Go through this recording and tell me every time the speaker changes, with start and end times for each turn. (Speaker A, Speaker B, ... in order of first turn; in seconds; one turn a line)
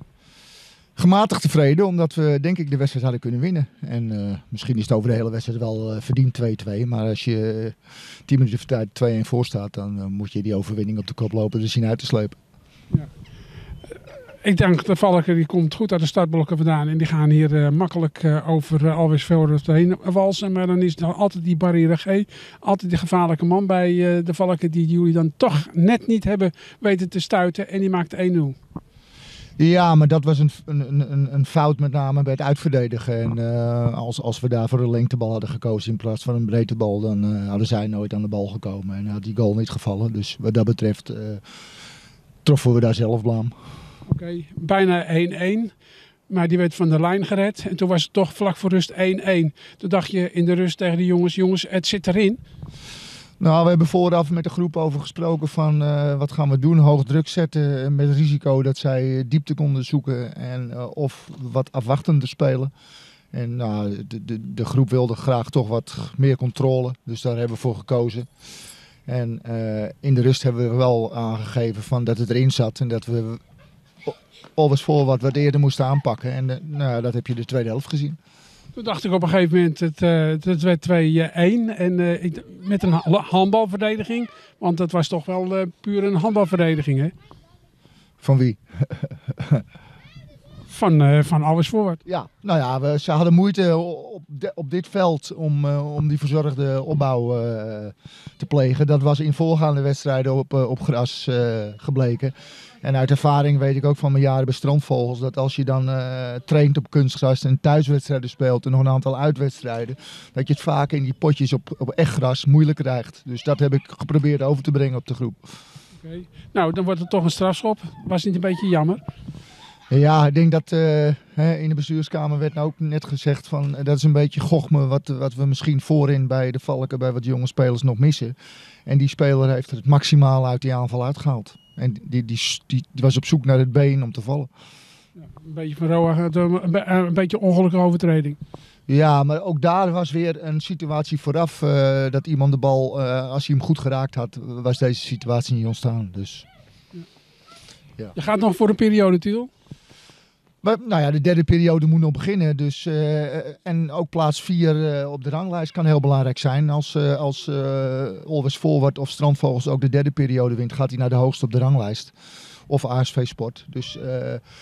Speaker A: 1.0-7.8
Speaker A: 8.3-12.4
Speaker B: 14.4-28.6
Speaker A: 29.6-41.4
Speaker A: 42.5-43.5
Speaker B: 44.1-45.7
Speaker B: 46.3-52.4
Speaker A: 53.4-62.7
Speaker A: 63.3-68.3
Speaker A: 69.1-73.4
Speaker A: 74.1-78.2
Speaker B: 78.8-87.1
Speaker A: 88.2-89.6
Speaker B: 90.7-92.0
Speaker A: 92.1-115.5
Speaker B: 116.0-119.0
Speaker A: 119.9-128.3
Speaker A: 128.9-134.5
Speaker B: 135.2-138.4
Speaker A: 138.9-146.5
Speaker B: 148.2-149.5
Speaker A: 150.6-162.1
Speaker A: 162.7-164.4